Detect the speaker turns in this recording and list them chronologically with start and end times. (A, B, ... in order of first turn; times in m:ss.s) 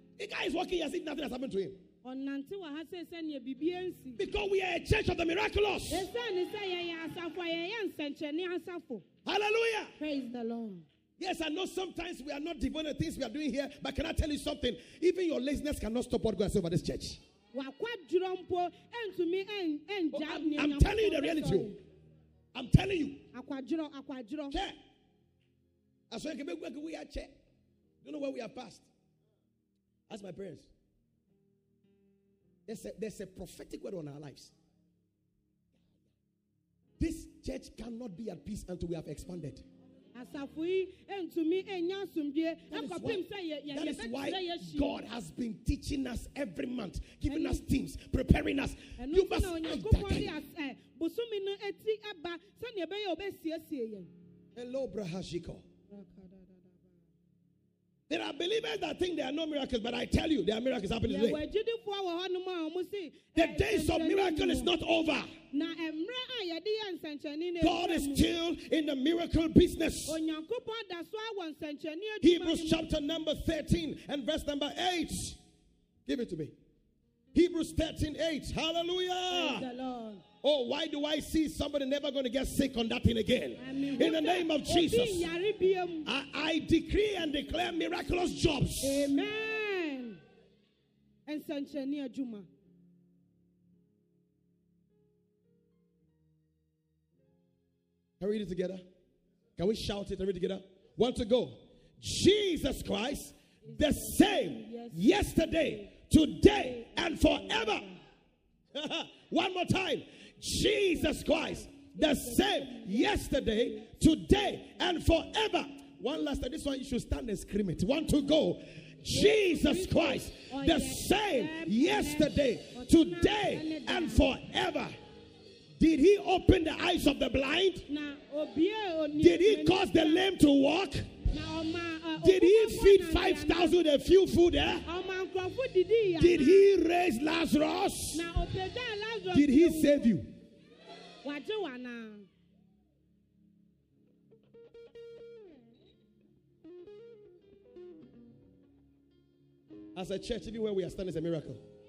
0:00.2-0:01.8 A
0:02.0-0:04.2 B
0:04.2-0:06.1 A
0:05.9-0:09.0 B
0:09.2-0:09.9 A
0:10.0-0:10.8 B
0:11.2-0:17.2 A
0:17.5-0:21.8 B
0:20.1-0:21.7 A
0:22.5-0:23.2 A
0:23.3-0:24.6 B
0:24.5-0:24.8 A
0:26.1-0:27.4 A
0:28.0-0:28.9 A
0:30.1-0:30.7 A
0:32.7-0:34.5 A
0:37.0-0:39.6 A
0:40.1-0:45.0 B
0:42.7-0:50.3 A
0:47.2-0:47.6 B
0:49.0-0:54.1 B
0:54.5-0:55.6 A
0:55.9-0:56.9 B
0:58.1-1:01.4 A
1:01.0-1:04.7 B
1:03.3-1:05.3 A
1:05.5-1:08.3 B
1:07.6-1:10.2 A
1:10.1-1:12.8 B
1:12.2-1:15.4 A
1:16.0-1:16.5 A
1:17.3-1:19.7 A
1:19.3-1:20.2 B
1:20.4-1:25.3 A
1:23.6-1:26.1 B
1:26.0-1:29.1 A
1:28.8-1:30.2 B
1:31.2-1:32.5 B
1:38.2-1:38.8 A
1:39.6-1:47.9 A
1:43.6-1:45.9 B
1:46.4-1:48.0 B
1:48.7-2:04.9 A
1:50.9-1:54.0 B
1:59.1-2:04.3 B
2:05.8-2:07.9 A
2:07.9-2:10.3 B
2:09.2-2:11.1 A
2:11.3-2:13.8 B
2:12.2-2:14.9 A
2:14.8-2:16.7 B
2:16.2-2:18.3 A
2:18.1-2:20.2 B
2:19.3-2:20.3 A
2:21.2-2:22.3 B
2:29.9-2:31.6 A